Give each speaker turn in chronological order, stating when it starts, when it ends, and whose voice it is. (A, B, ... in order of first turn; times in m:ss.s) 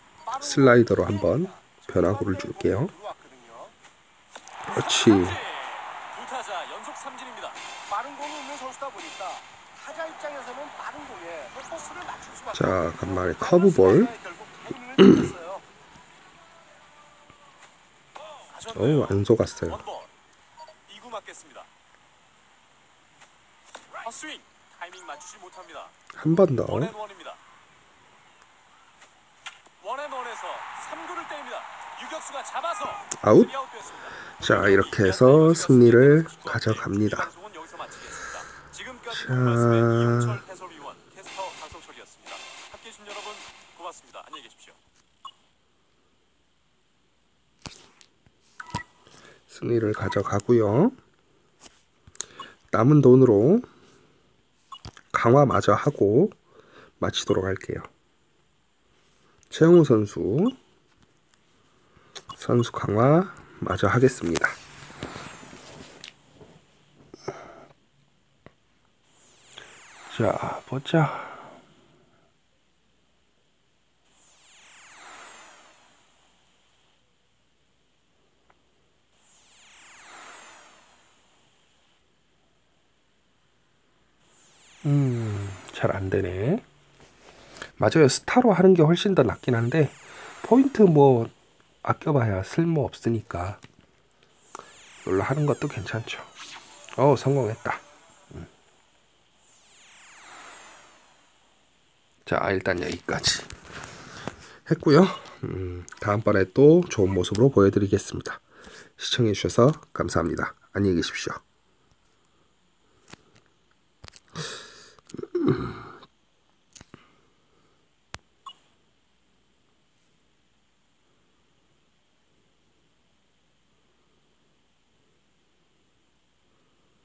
0:00.2-0:03.8 A
0:00.4-0:02.9 B
0:04.7-0:05.4 B
0:04.7-0:07.6 C
0:07.9-0:15.7 A
0:12.5-0:14.1 B
0:15.0-0:15.3 B
0:18.4-0:20.1 C
0:18.7-0:19.8 B
0:20.9-0:21.7 C
0:24.0-0:25.9 C
0:26.2-0:27.0 B
0:26.7-0:27.4 C
0:29.8-0:44.8 C
0:33.2-0:33.5 B
0:34.4-0:37.3 B
0:39.1-0:40.4 B
0:49.5-0:50.9 B
0:52.7-0:53.6 B
0:55.1-0:56.3 B
0:57.0-0:57.9 B
0:59.5-1:00.5 B
1:02.4-1:04.6 B
1:10.1-1:11.5 B
1:24.8-1:26.6 B
1:27.8-1:33.6 B
1:35.0-1:36.3 B
1:37.0-1:38.5 B
1:42.2-1:43.5 B
1:44.7-1:48.4 B
1:49.0-1:51.4 B
1:55.2-1:55.8 B